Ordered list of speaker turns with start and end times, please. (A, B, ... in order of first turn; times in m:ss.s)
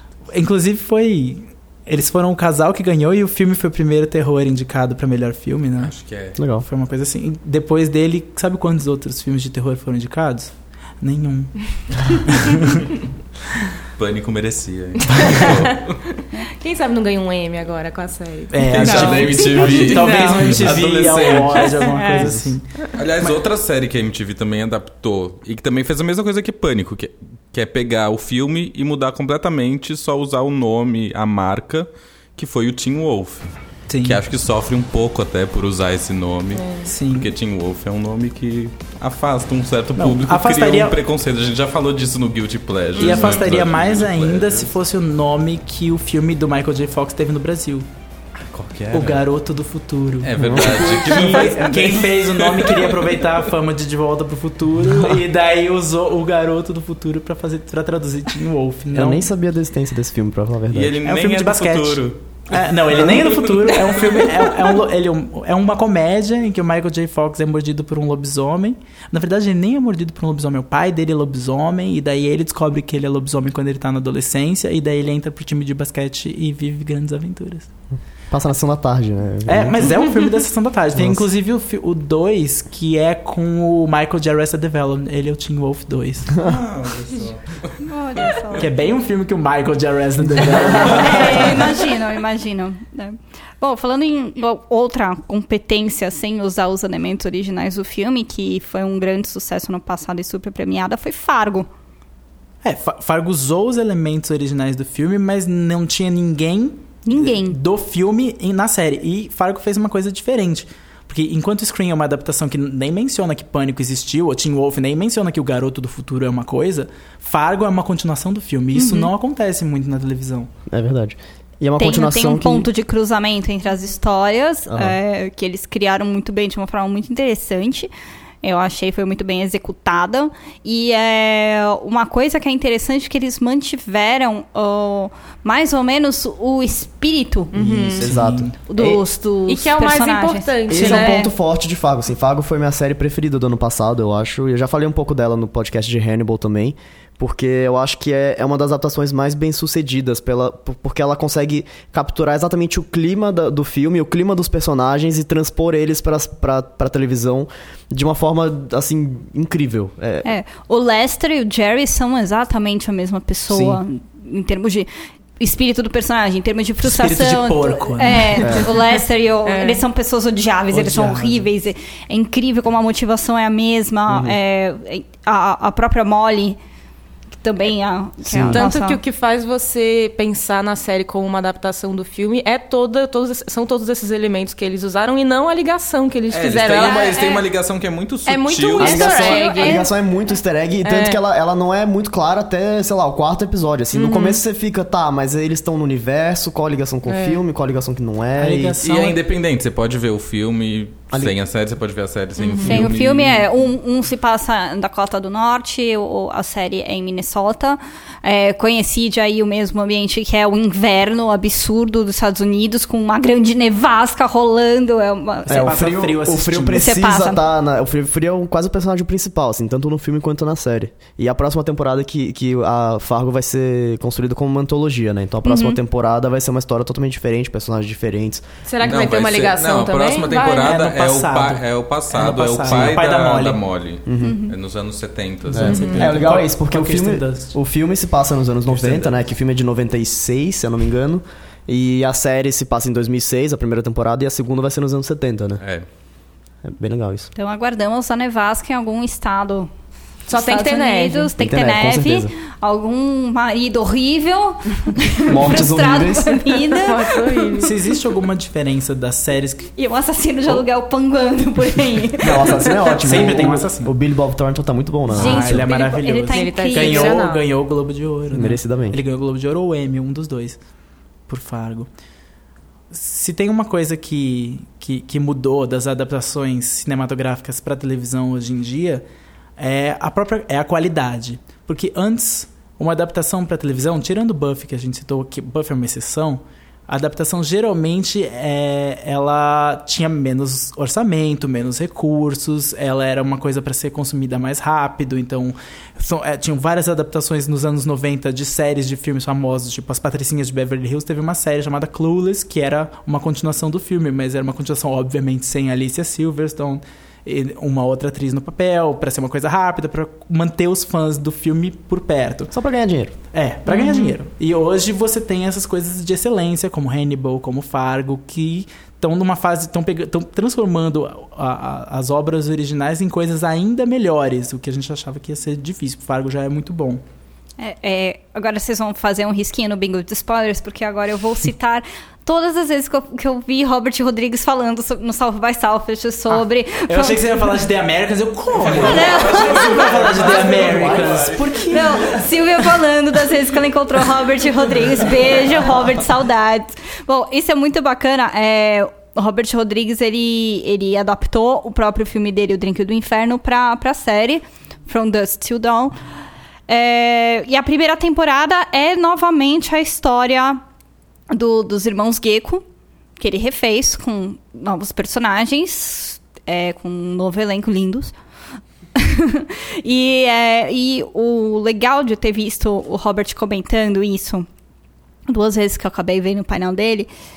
0:00.3-0:05.9 A
0:05.8-0:06.4 B
0:06.4-0:06.6 C
0:06.6-0:12.9 A
0:14.0-0:16.0 B
0:15.1-0:15.5 A
0:15.1-0:20.7 D
0:18.5-0:22.7 A
0:18.6-0:21.9 B
0:21.3-0:22.3 D
0:22.2-0:22.5 C
0:23.0-0:33.5 B
0:33.9-0:34.2 A
0:34.0-0:44.7 B
0:36.5-0:36.9 D
0:36.8-0:37.3 A
0:40.0-0:41.0 A
0:43.0-0:43.4 D
0:43.0-0:47.8 A
0:48.5-0:49.2 B
0:48.9-0:59.2 A
0:50.2-0:53.0 B
0:58.9-1:01.0 C
1:00.7-1:02.2 B
1:01.0-1:17.7 A
1:03.5-1:04.3 B
1:18.3-1:19.9 C
1:19.4-1:26.3 A
1:20.9-1:21.2 C
1:26.4-1:28.5 B
1:27.8-1:28.7 E
1:28.6-1:31.6 A
1:30.7-1:41.7 E
1:42.6-2:00.5 A
1:47.0-1:47.6 E
1:58.7-1:59.1 E
2:00.7-2:02.7 C
2:01.8-2:07.9 E
2:04.7-2:05.0 C
2:08.4-2:17.5 E
2:17.5-2:18.1 D
2:17.8-2:19.0 C
2:18.0-2:18.6 A
2:18.7-2:21.3 E
2:18.8-2:21.3 D
2:20.7-2:40.3 C
2:40.2-2:56.6 E
2:43.5-2:43.8 C
2:46.8-2:48.5 A
2:48.4-2:48.7 C
2:49.4-2:49.8 D
2:50.7-2:51.5 A
2:54.1-2:54.4 C
2:57.3-2:59.0 E
2:58.2-2:58.7 C
2:58.3-3:07.4 D
3:06.3-3:09.4 B
3:06.8-3:07.3 E
3:08.2-3:09.9 D
3:08.7-3:09.9 E
3:08.8-3:18.7 C
3:10.8-3:11.2 D
3:13.9-3:14.4 D
3:17.0-3:17.4 D
3:18.4-3:19.2 A
3:18.8-3:23.5 B
3:22.4-3:22.8 D
3:22.6-3:35.7 E
3:35.5-3:37.0 A
3:35.5-3:48.4 C
3:36.7-3:37.4 E
3:45.4-3:45.8 E
3:48.6-3:50.7 D
3:48.8-3:55.8 B
3:50.6-3:53.6 A
3:52.7-3:53.0 C
3:54.1-3:54.4 C
3:54.2-3:54.6 E
3:55.5-4:05.6 C
3:55.5-3:57.5 A
3:55.7-3:56.0 D
3:58.7-3:59.1 B
4:05.6-4:05.8 B
4:06.6-4:07.3 C
4:07.3-4:09.7 E
4:10.3-4:11.3 D
4:10.3-4:17.7 E
4:11.4-4:12.3 C
4:15.3-4:16.5 C
4:16.7-4:17.7 D
4:17.6-4:19.7 A
4:19.8-4:23.3 E
4:22.2-4:25.7 C
4:23.0-4:23.9 A
4:25.1-4:27.2 E
4:25.1-4:30.6 A
4:26.3-4:27.4 D
4:28.3-4:29.0 C
4:31.3-4:31.9 A
4:32.9-4:39.0 A
4:39.6-5:12.5 A
5:12.5-5:13.1 C
5:13.3-5:27.0 A
5:13.7-5:14.1 D
5:27.6-5:37.5 E
5:36.9-5:42.0 A
5:38.6-5:41.5 B
5:38.7-5:40.4 E
5:39.4-5:41.4 C
5:41.6-5:56.0 E
5:56.7-6:00.6 E
6:01.3-6:02.6 E
6:03.2-6:08.1 E
6:09.0-6:14.5 E
6:15.3-6:17.1 E